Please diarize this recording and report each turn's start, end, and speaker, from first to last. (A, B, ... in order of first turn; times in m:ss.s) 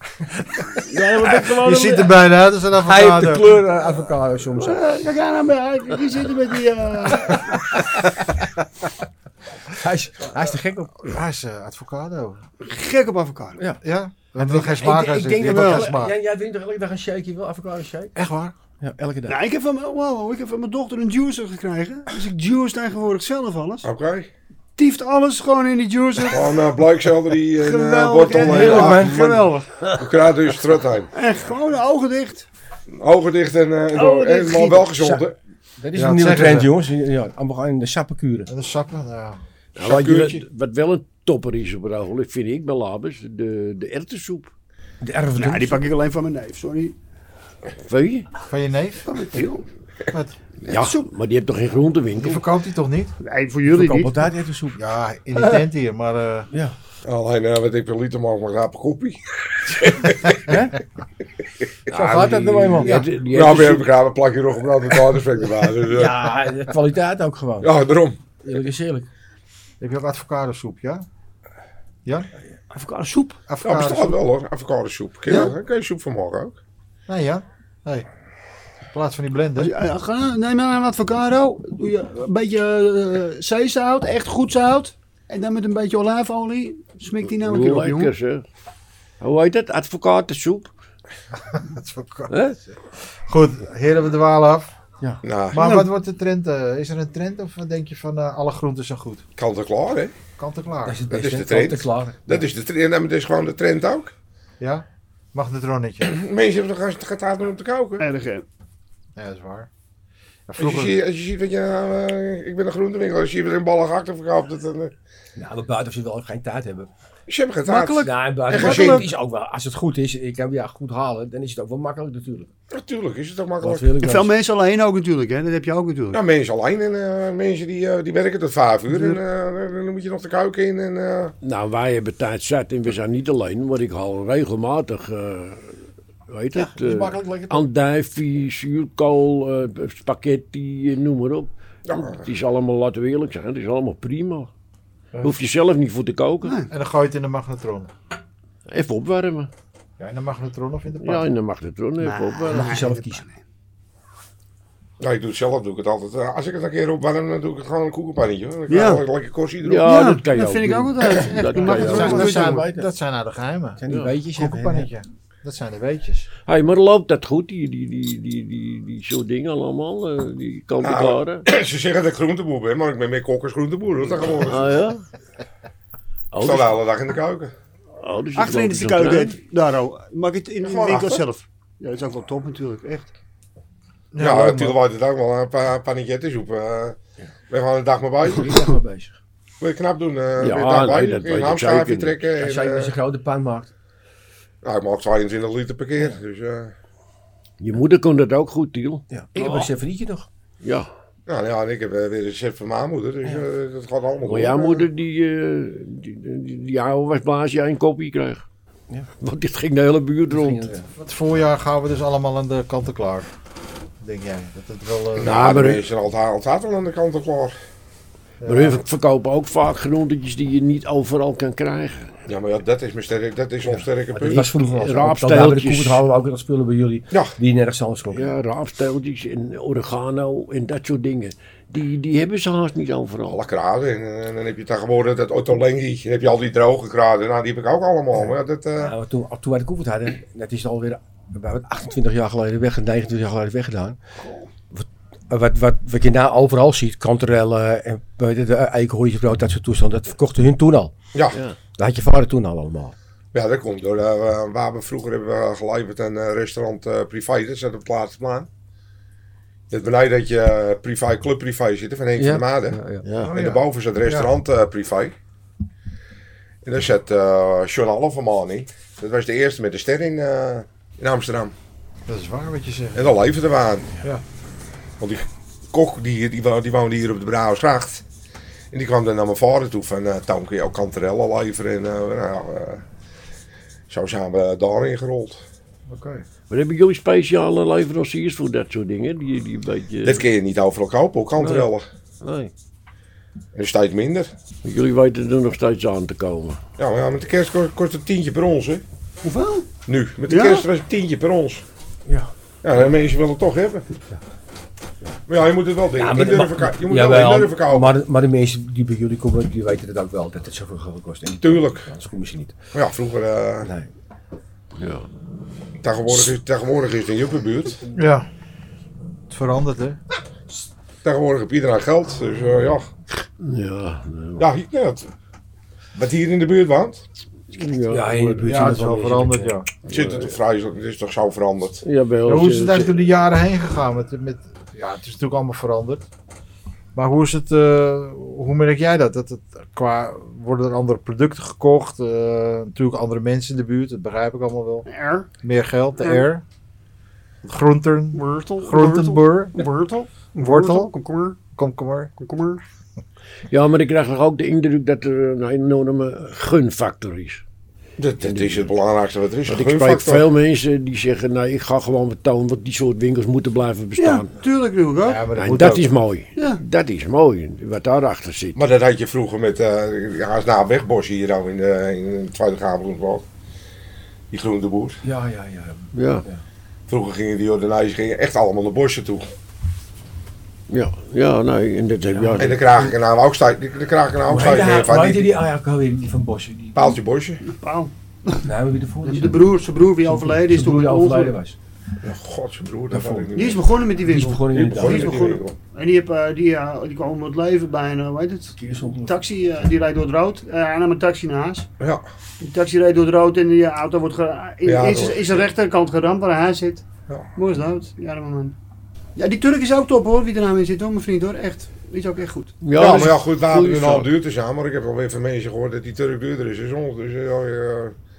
0:00.2-0:00.8 A
0:00.9-0:02.1 B
0:00.9-0:01.8 C
0:01.4-0:03.7 A
0:02.8-0:04.9 C
0:04.6-0:07.8 B
0:07.3-0:07.9 C
0:09.7-0:11.1 C
0:11.0-0:12.4 A
0:12.6-0:13.6 B
0:13.8-0:16.2 A
0:14.4-0:18.2 C
0:15.4-0:15.9 B
0:18.2-0:18.6 A
0:18.8-0:19.4 C
0:19.3-0:23.9 B
0:23.8-0:24.3 D
0:24.8-0:26.6 B
0:26.3-0:29.3 D
0:27.6-0:29.7 B
0:28.3-0:29.5 C
0:30.0-0:31.1 D
0:31.1-0:32.5 B
0:32.9-0:35.4 D
0:33.9-0:34.9 B
0:35.0-0:35.2 C
0:35.8-0:38.5 C
0:35.9-0:36.7 A
0:38.5-0:39.4 A
0:39.8-0:44.5 E
0:39.8-0:40.4 D
0:45.0-0:45.8 C
0:45.4-0:47.0 B
0:47.8-0:48.3 E
0:48.5-0:49.2 A
0:49.1-0:49.6 B
0:50.1-0:50.4 A
0:50.6-0:52.4 E
0:50.7-0:51.1 B
0:52.2-0:53.1 A
0:53.2-0:54.2 B
0:53.7-0:54.8 C
0:54.8-0:56.5 A
0:57.0-1:00.5 D
1:00.5-1:00.8 C
1:01.6-1:01.9 D
1:01.9-1:03.0 C
1:02.1-1:03.9 E
1:02.8-1:03.0 A
1:03.3-1:06.3 D
1:05.8-1:07.7 C
1:07.6-1:08.2 D
1:08.4-1:09.1 C
1:09.8-1:11.0 A
1:12.7-1:13.4 B
1:13.5-1:14.2 A
1:13.6-1:16.6 D
1:17.1-1:18.1 A
1:18.9-1:19.7 A
1:19.6-1:28.1 B
1:27.2-1:28.4 E
1:29.2-1:30.7 E
1:31.4-1:34.7 A
1:32.3-1:32.6 E
1:35.2-1:35.8 D
1:35.5-1:39.2 A
1:35.6-1:35.8 B
1:39.4-1:40.1 D
1:40.4-1:41.0 A
1:40.8-1:42.4 C
1:41.1-1:44.1 D
1:44.6-1:46.1 A
1:46.0-1:48.0 D
1:48.0-1:48.4 B
1:49.2-1:49.7 A
1:50.5-1:51.0 A
1:50.6-1:54.9 D
1:55.4-1:56.9 C
1:57.3-1:59.1 D
1:57.7-1:59.1 B
1:58.0-2:02.5 C
2:02.7-2:03.9 D
2:03.6-2:04.3 C
2:04.0-2:06.2 B
2:06.1-2:11.3 D
2:08.9-2:09.2 C
2:11.4-2:15.8 E
2:16.3-2:24.5 E
2:16.6-2:17.6 C
2:21.9-2:22.3 D
2:25.2-2:26.6 E
2:26.4-2:26.7 B
2:26.7-2:27.9 A
2:28.7-2:29.5 E
2:30.0-2:31.3 A
2:31.0-2:32.7 E
2:32.0-2:33.4 B
2:32.5-2:33.2 C
2:35.0-2:39.9 D
2:38.7-2:39.0 B
2:39.6-2:42.3 E
2:39.8-2:42.6 B
2:41.6-2:42.9 C
2:41.8-2:46.3 A
2:43.8-2:44.9 C
2:46.5-2:51.5 E
2:50.8-2:54.8 D
2:54.3-2:55.0 E
2:56.3-2:56.8 E
2:56.4-2:57.5 D
2:58.0-2:59.4 E
2:58.4-3:03.1 B
3:00.6-3:01.2 D
3:04.1-3:04.8 A
3:04.2-3:07.0 D
3:07.5-3:08.6 D
3:08.3-3:09.2 C
3:09.6-3:13.0 D
3:10.4-3:12.2 E
3:12.4-3:13.7 C
3:14.6-3:16.7 D
3:17.6-3:19.7 E
3:19.1-3:20.3 C
3:20.6-3:20.9 E
3:21.3-3:24.8 D
3:24.3-3:28.4 E
3:29.2-3:30.7 E
3:30.3-3:30.9 C
3:31.0-3:33.3 A
3:34.0-3:35.4 A
3:35.2-3:37.6 D
3:35.2-3:35.8 E
3:38.4-3:38.8 A
3:38.5-3:42.2 E
3:42.3-3:44.5 D
3:44.1-3:48.4 C
3:44.8-3:46.0 E
3:48.1-3:53.4 E
3:53.3-3:59.0 D
3:58.2-4:04.0 C
4:04.2-4:04.5 B
4:04.7-4:10.9 C
4:11.3-4:11.6 E
4:11.8-4:13.0 C
4:13.3-4:18.5 D
4:19.7-4:25.2 D
4:22.2-4:23.1 C
4:23.0-4:23.3 E
4:23.1-4:24.3 A
4:26.6-4:31.5 D
4:32.1-4:33.1 A
4:33.0-4:33.9 D
4:35.0-4:38.0 D
4:38.7-4:42.8 D
4:43.9-4:45.4 D
4:45.9-4:46.2 A
4:46.5-4:50.2 E
4:50.0-4:51.8 D
4:51.4-4:51.7 E
4:52.2-4:52.5 E
4:53.6-4:54.3 D
4:54.6-4:56.6 E
4:56.8-4:58.8 D
4:59.2-4:59.7 B
4:59.9-5:01.6 D
5:00.3-5:00.7 B
5:02.6-5:03.8 D
5:05.3-5:08.0 D
5:06.0-5:12.6 C
5:11.4-5:11.9 D
5:12.7-5:13.7 D
5:13.6-5:13.9 C
5:14.8-5:15.1 E
5:15.8-5:17.8 D
5:18.0-5:18.3 A
5:19.3-5:20.0 A
5:21.0-5:22.9 D
5:23.4-5:24.4 E
5:24.4-5:25.1 D
5:26.0-5:27.0 D
5:27.5-5:28.7 E
5:27.9-5:29.5 C
5:28.4-5:29.7 A
5:29.8-5:31.8 D
5:30.0-5:30.3 E
5:31.8-5:32.9 E
5:32.3-5:36.0 A
5:37.0-5:44.9 A
5:44.9-5:45.3 B
5:45.4-5:46.4 A
5:46.0-5:46.3 B
5:47.4-5:49.7 A
5:48.1-5:51.4 B
5:50.4-5:50.9 A
5:51.5-5:52.1 A
5:52.2-5:52.6 B
5:53.5-5:57.4 E
5:58.0-6:00.3 D
5:58.2-5:58.7 E
5:59.5-6:04.3 E
6:04.0-6:05.2 B
6:05.0-6:06.0 A
6:05.4-6:08.6 E
6:08.6-6:13.2 D
6:14.3-6:15.0 D
6:15.0-6:16.4 C
6:15.9-6:16.2 E
6:16.9-6:19.3 D
6:20.7-6:22.6 E
6:22.1-6:22.9 C
6:22.4-6:25.4 D
6:24.2-6:27.0 C
6:26.8-6:27.4 D
6:27.4-6:28.5 B
6:28.4-6:31.6 C
6:29.0-6:31.4 B
6:32.0-6:33.6 D
6:32.9-6:33.4 C
6:33.4-6:41.7 B
6:34.0-6:35.4 C
6:34.5-6:35.6 D
6:38.6-6:39.2 C
6:41.8-6:42.0 D
6:42.4-6:46.8 B
6:44.6-6:45.5 D
6:47.4-6:48.6 B
6:49.2-6:52.6 B
6:52.6-6:54.1 E
6:52.7-6:58.0 D